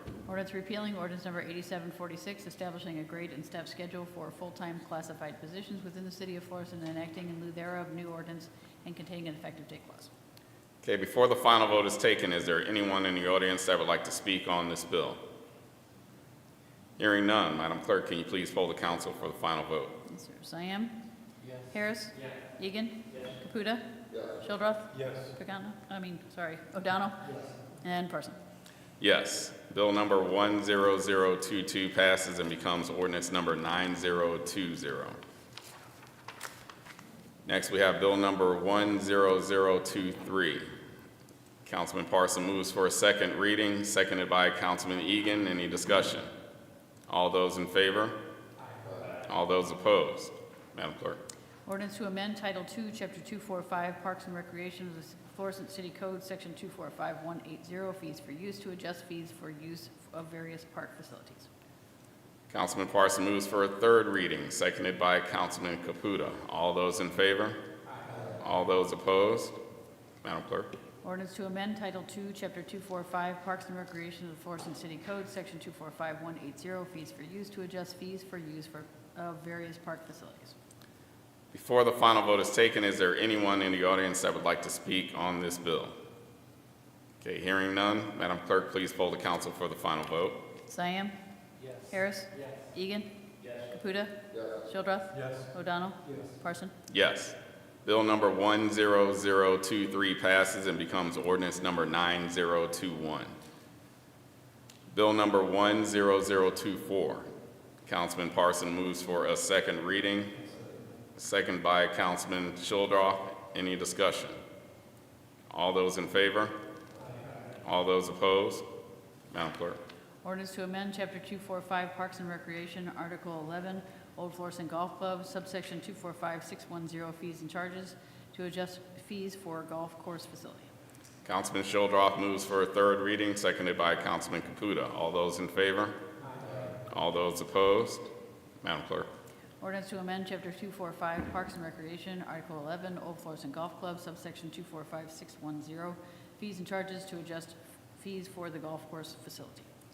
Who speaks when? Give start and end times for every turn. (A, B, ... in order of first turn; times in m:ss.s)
0:00.2-0:10.1 A
0:10.8-0:15.2 B
0:17.0-0:19.9 B
0:20.0-0:21.0 A
0:21.7-0:28.4 A
0:29.0-0:35.2 B
0:37.4-0:40.6 B
0:41.6-0:46.3 B
0:47.1-0:48.2 B
0:49.0-0:51.2 B
0:51.6-1:01.5 A
1:02.5-1:07.6 B
1:08.2-1:09.6 B
1:10.2-1:10.7 B
1:11.0-1:20.5 A
1:21.5-1:26.0 B
1:27.2-1:30.4 B
1:30.7-1:31.1 A
1:31.9-1:36.7 A
1:36.9-1:43.3 B
1:44.9-1:47.3 B
1:47.8-1:50.4 B
1:51.2-1:54.4 B
1:55.5-1:56.6 B
1:57.6-1:58.6 B
1:59.3-1:59.8 B
2:00.2-2:10.7 A
2:11.2-2:16.0 B
2:16.8-2:18.1 B
2:18.6-2:19.1 B
2:19.6-2:29.7 A